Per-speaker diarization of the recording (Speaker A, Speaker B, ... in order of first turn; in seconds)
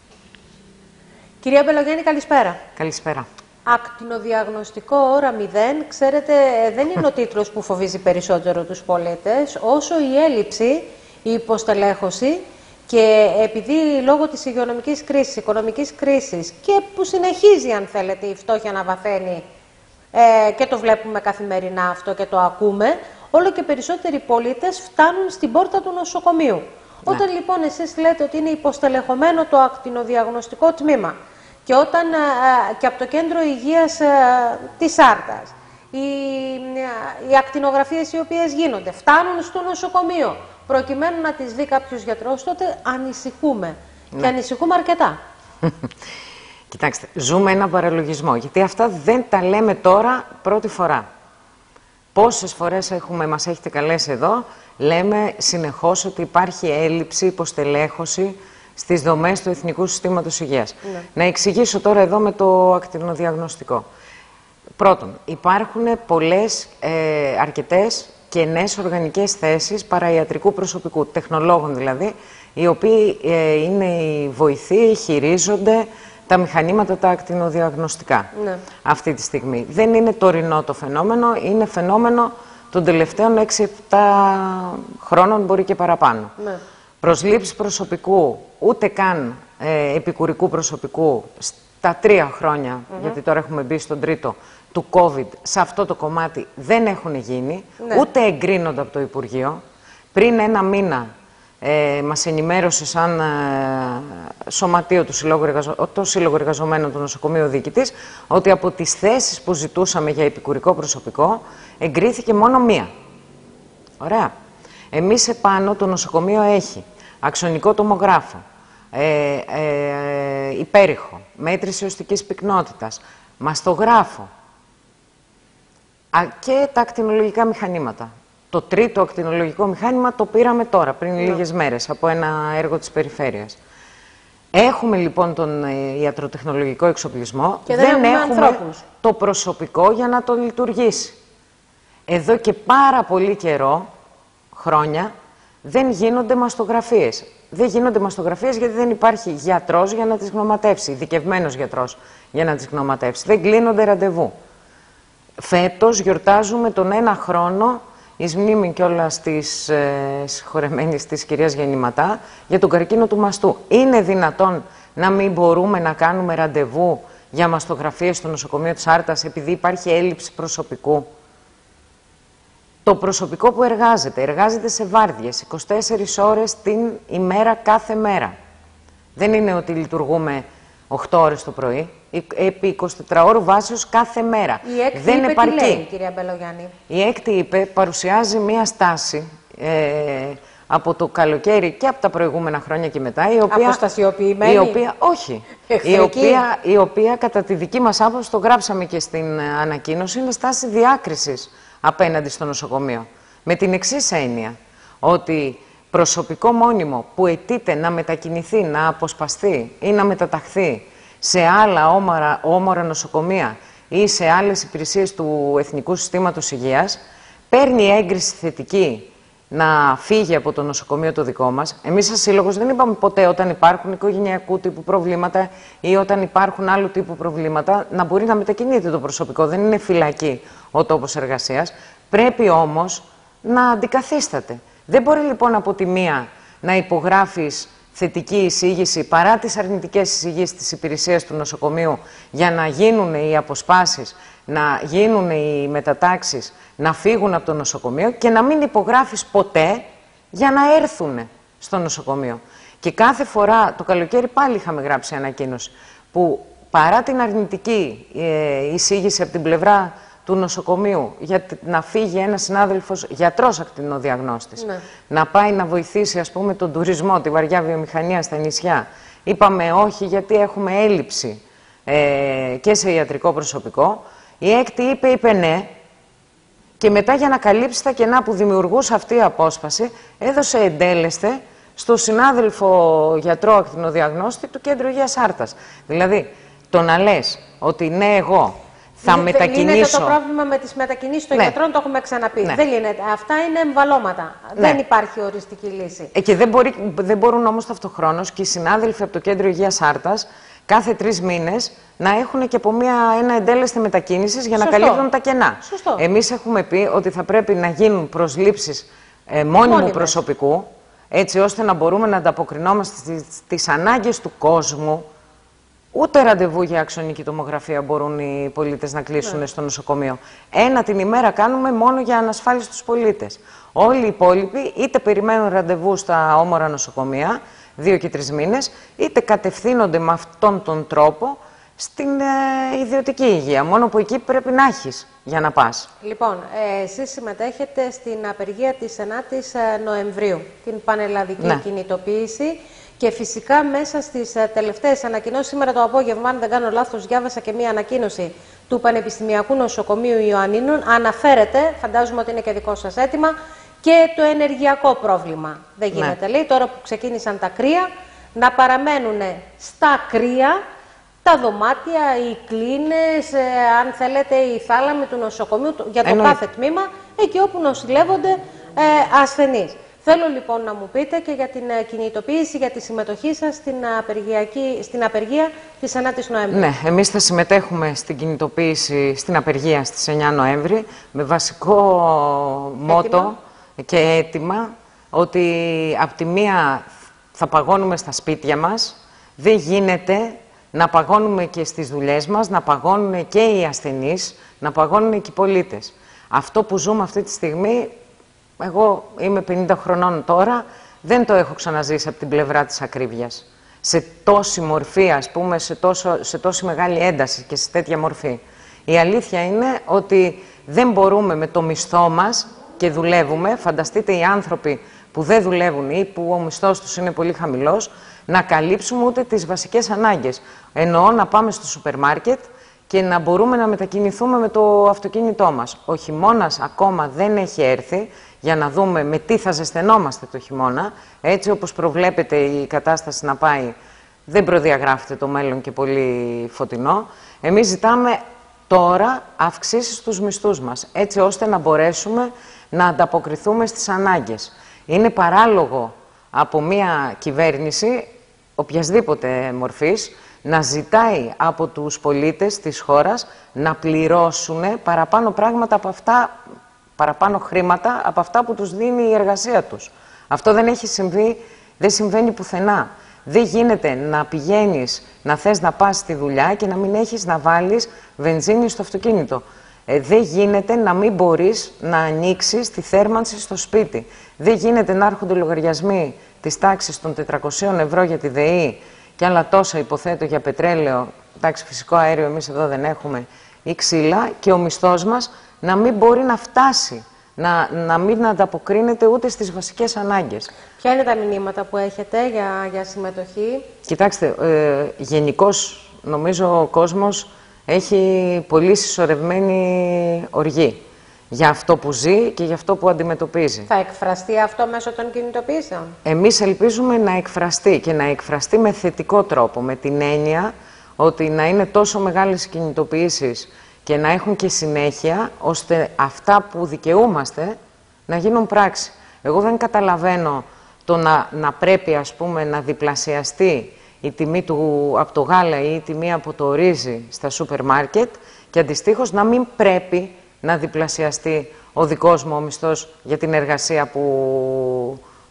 Speaker A: 1.4-2.6, 3.6-19.4, 20.1-31.1, 31.6-45.2, 78.3-78.6, 97.8-98.1, 137.7-138.8, 184.6-186.7, 193.5-194.8, 195.7-196.4, 264.6-264.8, 289.0-296.1, 304.6-305.0, 305.6-306.0, 309.6-310.2, 336.0-360.6, 361.2-376.7, 382.9-383.3, 490.8-493.6, 503.7-505.9
Speaker B: 2.8-3.2, 46.7-51.0, 52.1-63.9, 64.8-78.3, 78.8-86.3, 87.0-99.6, 100.1-101.1, 101.6-112.9, 114.0-114.3, 114.9-124.3, 126.1-133.6, 134.5-141.2, 142.1-143.9, 144.5-145.1, 145.6-154.3, 155.4-171.1, 172.8-178.3, 179.2-185.8, 186.9-193.8, 194.4-217.0, 217.5-275.7, 276.8-290.1, 296.1-315.0, 315.9-335.9, 366.0-366.4, 376.5-397.9, 398.6-433.7, 434.3-456.3, 457.0-490.5, 493.8-503.7, 506.0-517.6, 518.1-535.0